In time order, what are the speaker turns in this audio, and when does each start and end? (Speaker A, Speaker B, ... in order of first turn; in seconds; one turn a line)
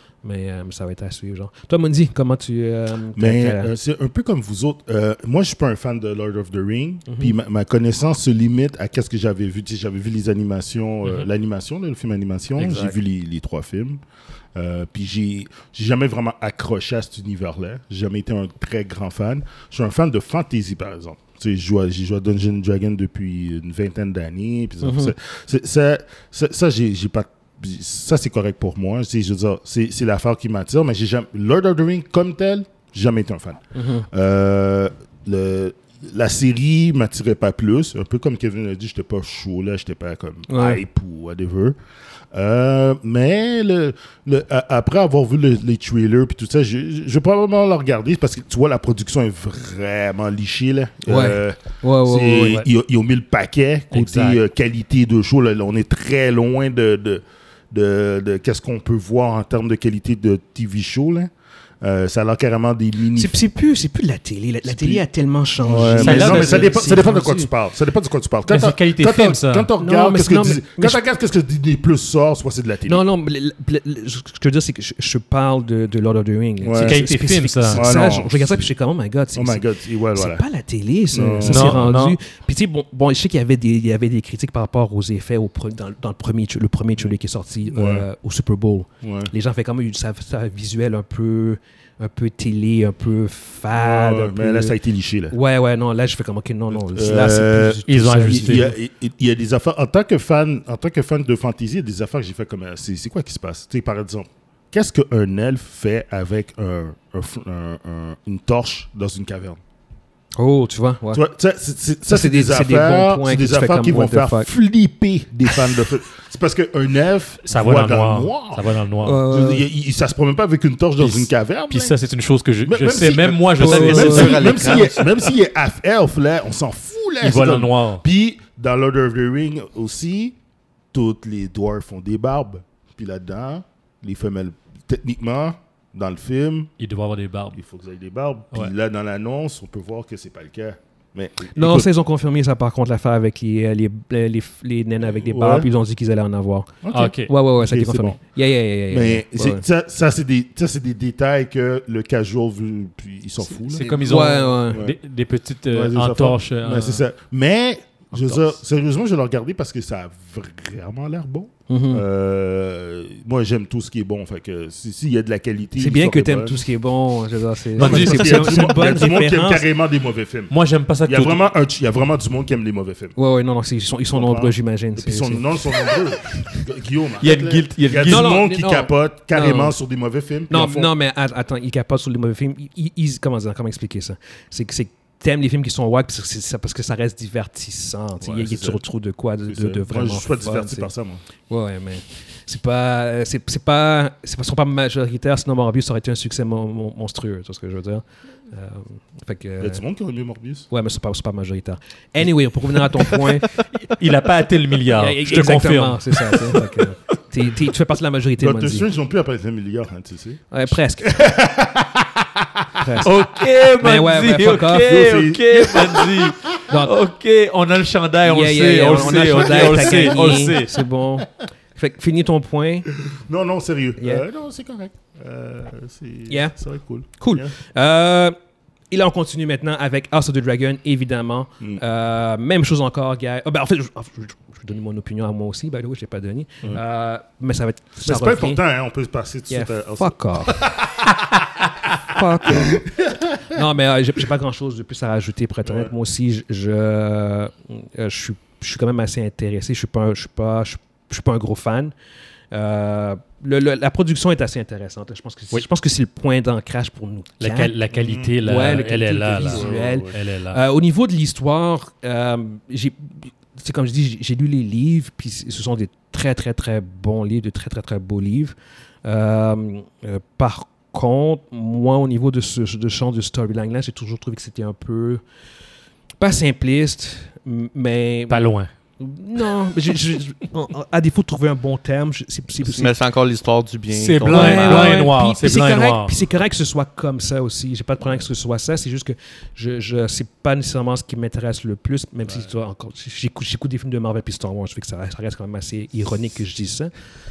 Speaker A: 0.2-3.7
Speaker B: 3.1-14.0
Speaker A: 7.1-7.3
Speaker C: 12.6-13.0
Speaker B: 14.5-41.8
Speaker A: 24.8-25.1
Speaker A: 33.7-34.1
Speaker A: 40.5-40.8
Speaker B: 42.3-63.4
Speaker A: 51.1-52.6
Speaker C: 53.9-54.4
Speaker A: 63.1-67.5
Speaker B: 64.6-65.0
Speaker B: 65.6-73.0
Speaker C: 65.8-67.1
Speaker C: 68.5-69.7
Speaker A: 69.8-71.0
Speaker A: 72.9-79.6
Speaker B: 76.6-77.0
Speaker C: 76.8-77.8
Speaker B: 77.7-78.7
Speaker B: 79.3-80.4
Speaker A: 80.1-94.7
Speaker B: 81.1-82.0
Speaker C: 81.4-82.2
Speaker B: 87.7-88.0
Speaker B: 89.0-89.3
Speaker B: 93.7-95.3
Speaker A: 95.3-98.7
Speaker B: 96.7-109.6
Speaker C: 97.9-98.7
Speaker A: 110.4-111.2
Speaker B: 111.1-118.7
Speaker A: 112.0-114.5
Speaker C: 117.5-119.2
Speaker A: 119.0-119.6
Speaker B: 119.2-121.9
Speaker C: 121.0-124.7
Speaker B: 122.6-130.3
Speaker A: 123.6-124.6
Speaker D: 123.8-125.2
Speaker C: 127.2-128.0
Speaker B: 130.9-136.7
Speaker C: 136.8-137.6
Speaker B: 137.5-141.9
Speaker A: 141.5-149.6
Speaker B: 145.0-145.7
Speaker B: 146.8-148.2
Speaker C: 146.9-147.3
Speaker B: 148.9-155.0
Speaker C: 153.7-157.0
Speaker A: 153.9-154.8
Speaker B: 155.7-166.7
Speaker C: 158.1-158.4
Speaker A: 161.7-162.0
Speaker A: 165.8-169.6
Speaker C: 167.8-169.1
Speaker B: 167.8-170.5
Speaker C: 170.5-171.4
Speaker B: 171.1-173.1
Speaker A: 173.2-175.5
Speaker B: 174.1-180.9
Speaker C: 177.2-178.3
Speaker A: 178.1-179.7
Speaker A: 180.5-190.9
Speaker B: 188.2-188.8
Speaker B: 189.5-191.2
Speaker A: 191.5-199.8
Speaker B: 199.6-200.7
Speaker A: 200.7-203.5
Speaker C: 203.8-206.8
Speaker A: 204.9-208.8
Speaker B: 208.4-213.1
Speaker A: 210.5-211.3
Speaker A: 212.8-213.1
Speaker C: 213.0-220.8
Speaker A: 213.8-215.0
Speaker B: 214.8-216.5
Speaker A: 216.7-216.9
Speaker A: 218.2-222.9
Speaker B: 219.4-220.3
Speaker B: 223.0-227.5
Speaker A: 226.3-226.6
Speaker A: 227.1-228.3
Speaker A: 228.9-238.6
Speaker B: 238.0-241.1
Speaker A: 239.5-240.6
Speaker A: 242.0-251.9
Speaker B: 242.5-243.4
Speaker B: 245.6-245.9
Speaker A: 252.5-257.8
Speaker C: 257.4-260.6
Speaker B: 257.9-258.4
Speaker A: 258.4-275.2
Speaker B: 259.4-260.1
Speaker A: 276.2-278.4
Speaker C: 278.3-278.7
Speaker A: 279.0-282.9
Speaker D: 282.6-285.1
Speaker C: 283.9-286.1
Speaker A: 284.2-296.9